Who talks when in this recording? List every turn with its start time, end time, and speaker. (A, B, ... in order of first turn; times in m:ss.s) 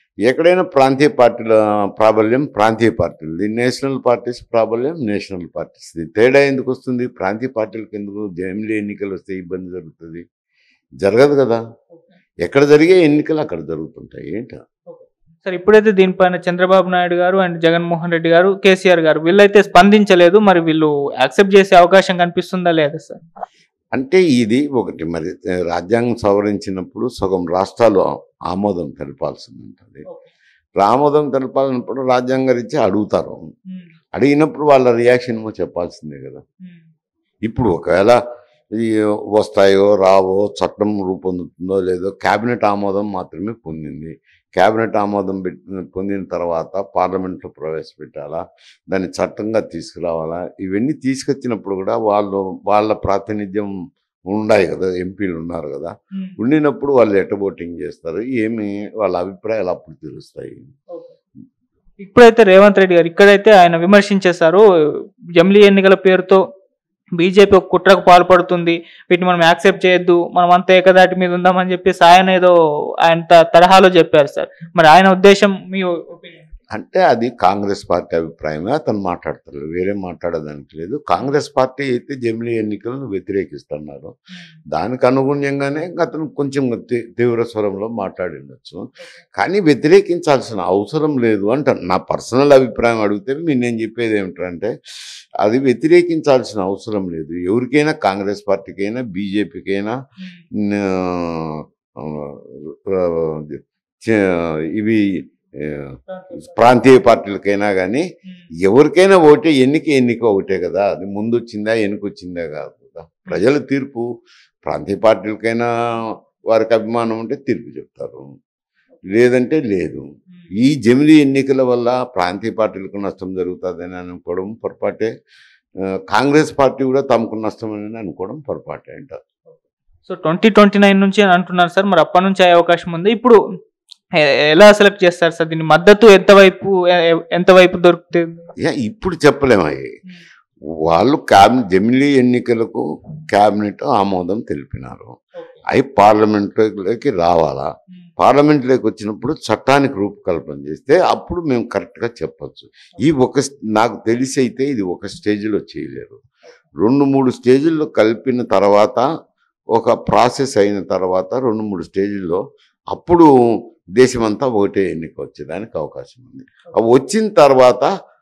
0:00.3-0:10.2 A
0:11.0-0:11.6 A
0:12.4-0:14.6 A
0:14.9-0:23.2 B
0:23.9-0:30.0 A
0:30.8-0:33.4 A
0:34.1-0:36.4 A
0:37.4-0:38.2 A
0:38.7-0:53.7 A
0:54.3-1:00.6 A
0:56.1-0:56.4 B
1:02.0-1:04.6 B
1:05.4-1:06.4 B
1:07.2-1:12.5 B
1:13.0-1:16.5 B
1:16.7-1:24.1 A
1:24.7-1:40.0 A
1:29.0-1:29.2 B
1:40.2-1:40.4 B
1:40.6-1:48.0 A
1:46.1-1:46.7 B
1:48.2-1:48.5 B
1:48.6-1:54.0 A
1:54.6-1:55.7 A
1:56.5-1:58.2 A
1:59.1-2:00.0 A
2:00.6-2:05.1 A
2:06.1-2:09.2 A
2:09.5-2:13.4 B
2:14.2-2:18.4 B
2:18.6-2:19.9 A
2:20.9-2:25.2 A
2:25.7-2:27.7 A
2:28.2-2:36.2 A
2:36.8-2:39.0 A
2:39.7-2:42.4 A
2:42.9-2:43.3 A
2:44.0-2:47.9 A